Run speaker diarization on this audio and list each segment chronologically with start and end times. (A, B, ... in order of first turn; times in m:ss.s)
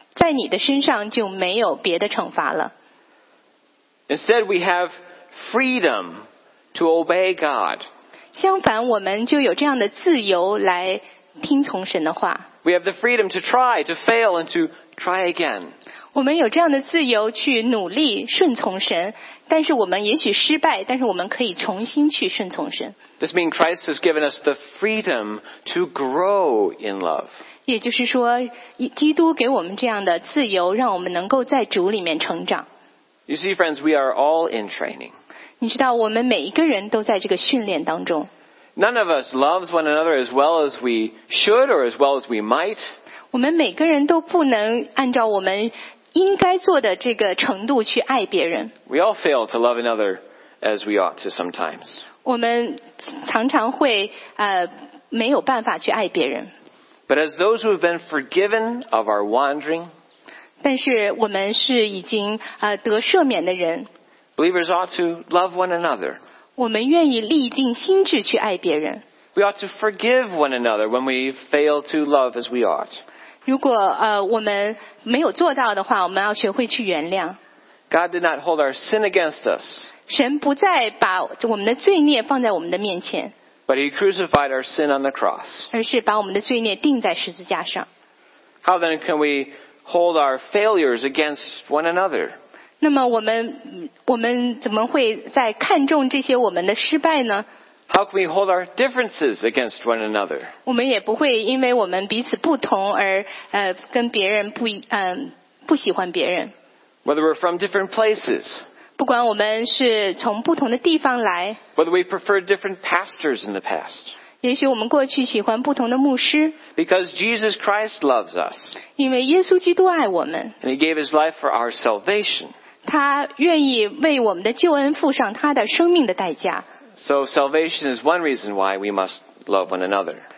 0:00.1-0:02.7 A
0:04.1-0:07.8 B
0:08.3-0:12.5 A
0:12.6-0:15.7 B
0:16.1-0:23.0 A
0:23.2-0:27.3 B
0:27.6-0:32.7 A
0:33.3-0:35.1 B
0:35.6-0:38.3 A
0:38.8-0:42.9 B
0:43.3-0:48.7 A
0:48.9-0:52.0 B
0:52.2-0:56.5 A
0:57.1-0:59.9 B
1:00.6-1:03.9 A
1:04.4-1:06.2 B
1:06.6-1:09.0 A
1:09.3-1:13.0 B
1:13.4-1:17.4 A
1:17.9-1:19.9 B
1:20.1-1:23.3 A
1:23.7-1:25.7 B
1:25.7-1:27.9 A
1:28.6-1:32.4 B
1:32.8-1:37.5 A
1:37.9-1:40.5 B
1:40.6-1:46.5 A
1:47.0-1:48.6 B
1:49.0-1:51.6 A
1:51.8-1:54.1 B
1:54.4-1:56.6 A
1:56.8-1:58.8 B
1:58.9-2:00.6 A
2:00.6-2:02.5 B
2:02.8-2:06.6 A
2:07.0-2:10.2 B